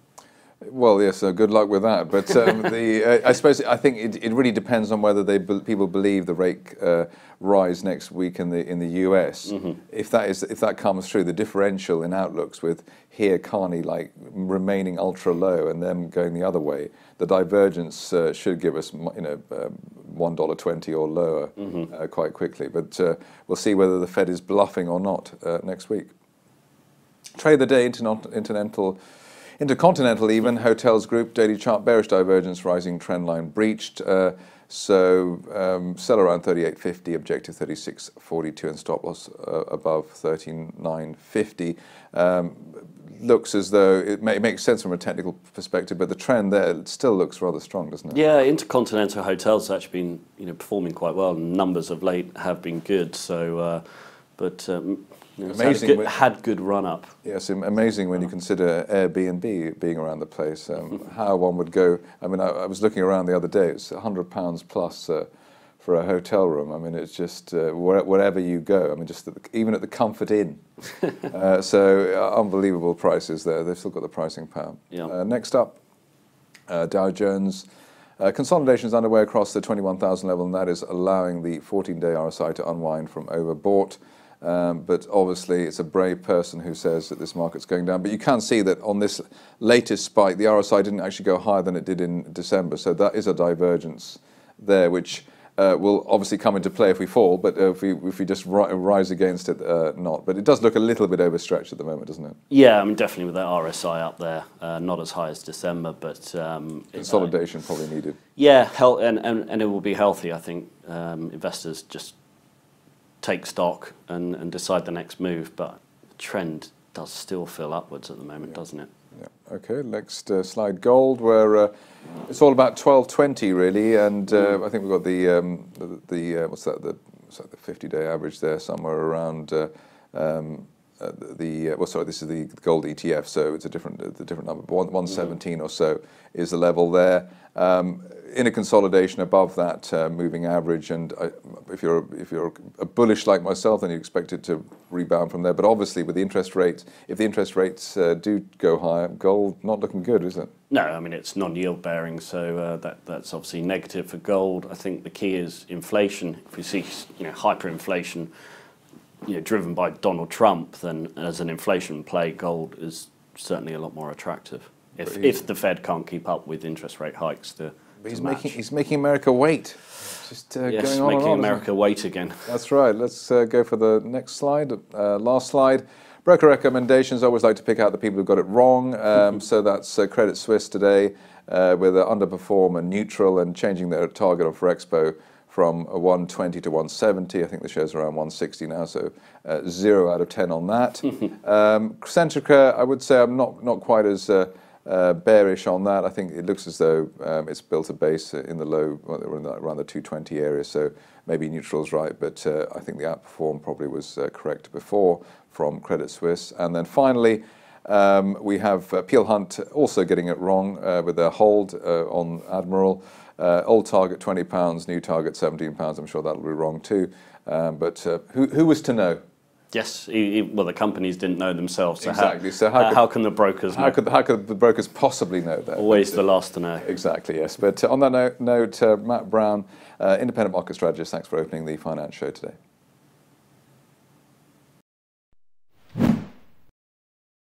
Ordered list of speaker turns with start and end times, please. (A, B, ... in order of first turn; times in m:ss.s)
0:00.6-0:26.1 A
0:27.4-0:29.0 A
0:29.6-0:48.2 A
0:48.1-0:57.1 B
0:55.5-0:56.1 A
0:57.2-1:05.3 A
1:05.8-1:10.6 A
1:11.2-1:15.8 A
1:16.7-1:17.6 A
1:18.2-1:42.4 A
1:42.5-1:47.3 B
1:47.0-1:48.2 A
1:48.4-1:52.1 B
1:53.2-1:58.9 B
1:59.2-2:01.7 A
2:02.2-2:30.5 A
2:30.7-2:38.3 B
2:39.2-2:48.6 B
2:45.0-2:45.3 A
2:48.0-2:51.6 A
2:50.6-2:52.5 B
2:52.4-3:39.2 A
3:39.7-3:44.0 B
3:42.0-3:43.0 A
3:43.7-3:46.2 A
3:45.8-3:46.8 B
3:46.8-3:52.6 A